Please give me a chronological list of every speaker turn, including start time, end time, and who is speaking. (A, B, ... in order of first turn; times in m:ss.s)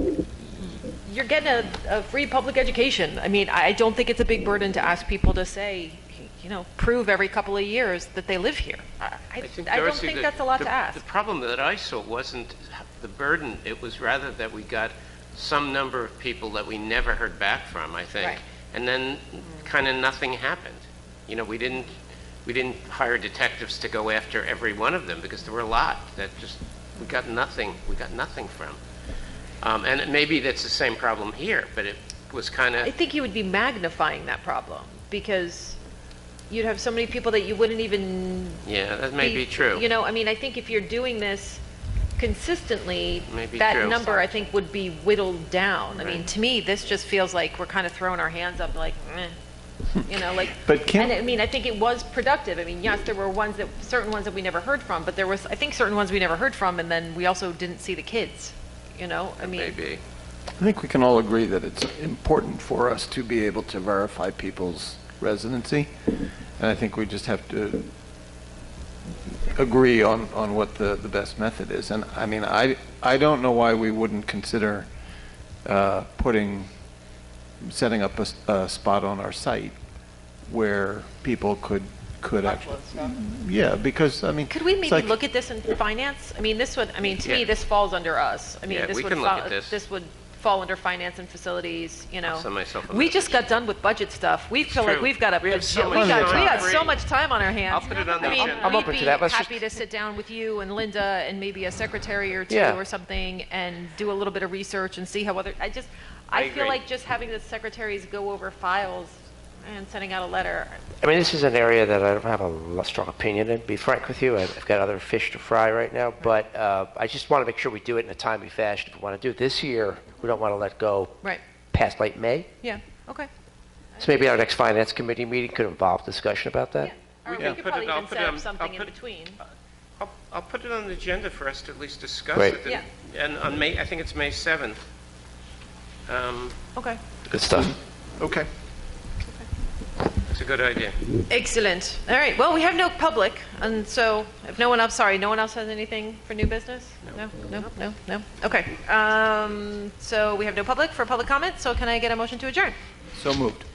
0:00.4-0:11.0 A
0:09.4-0:21.9 B
0:22.4-0:28.8 B
0:29.6-0:32.9 B
0:32.8-0:35.8 A
0:36.5-0:38.6 A
0:38.6-0:39.8 B
0:39.2-0:41.6 A
0:42.2-0:49.4 A
0:43.3-0:44.4 B
0:46.0-0:46.3 B
0:49.9-0:51.1 C
0:50.0-0:59.7 A
0:59.4-1:00.0 B
1:00.6-1:07.9 C
1:09.5-1:14.9 C
1:15.6-1:16.7 C
1:17.6-1:19.8 C
1:20.5-1:25.2 C
1:24.5-1:50.9 A
1:28.7-1:29.8 B
1:32.2-1:33.4 B
1:34.6-1:37.0 B
1:35.9-1:36.7 C
1:37.7-1:39.1 B
1:38.1-1:39.6 D
1:42.5-1:42.8 D
1:46.3-1:46.8 B
1:51.0-2:01.2 D
2:01.7-2:02.5 D
2:02.6-2:03.3 A
2:04.0-2:06.9 D
2:06.8-2:09.4 A
2:07.2-2:08.9 B
2:10.0-2:14.8 B
2:16.1-2:16.6 B
2:17.3-2:17.7 D
2:17.6-2:18.5 C
2:20.3-2:21.0 B
2:21.3-2:32.8 A
2:33.1-2:33.6 C